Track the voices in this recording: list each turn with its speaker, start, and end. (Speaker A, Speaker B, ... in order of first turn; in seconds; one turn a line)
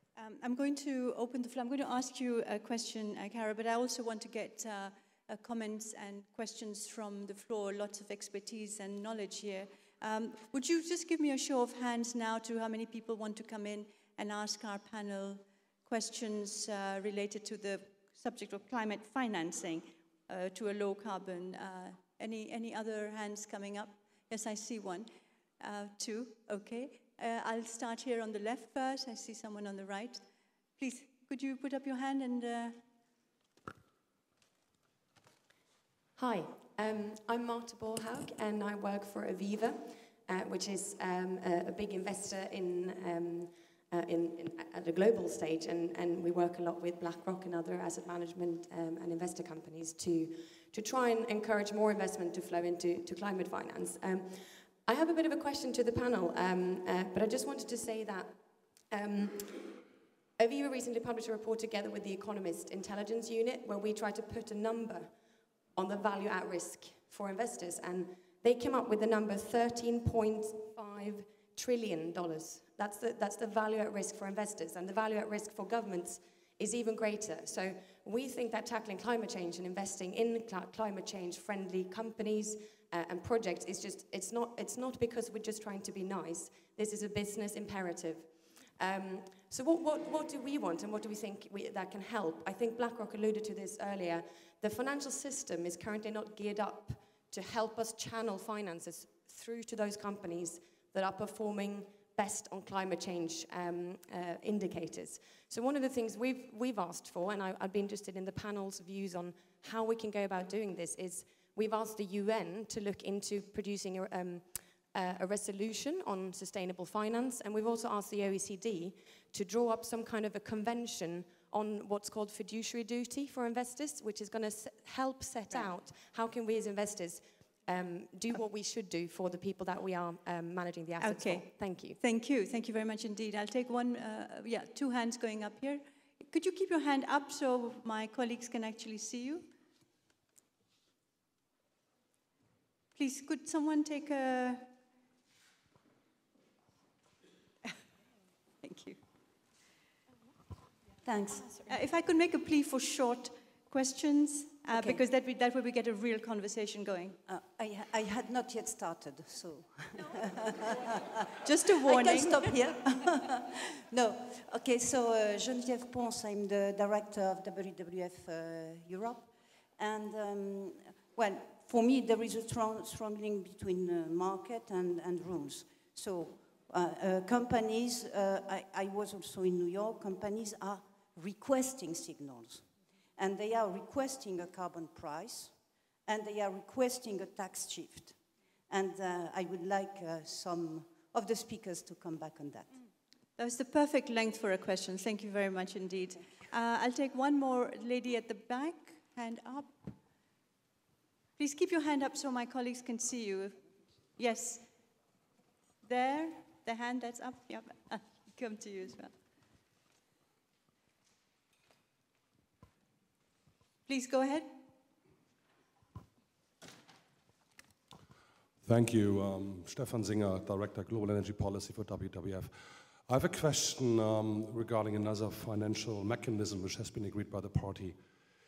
Speaker A: 0.2-30.2
Speaker A: 30.8-32.8
Speaker B: 36.2-59.8
Speaker B: 60.4-65.1
Speaker B: 65.8-132.0
Speaker A: 131.0-139.5
Speaker A: 142.9-144.7
Speaker A: 148.6-149.0
Speaker C: 151.0-151.8
Speaker A: 151.7-157.2
Speaker C: 154.7-155.0
Speaker C: 157.3-160.9
Speaker A: 161.4-162.6
Speaker C: 161.7-192.8
Speaker A: 193.4-199.9
Speaker A: 201.4-203.6
Speaker A: 204.2-204.7
Speaker A: 205.8-209.1
Speaker A: 213.9-214.5
Speaker D: 218.6-228.0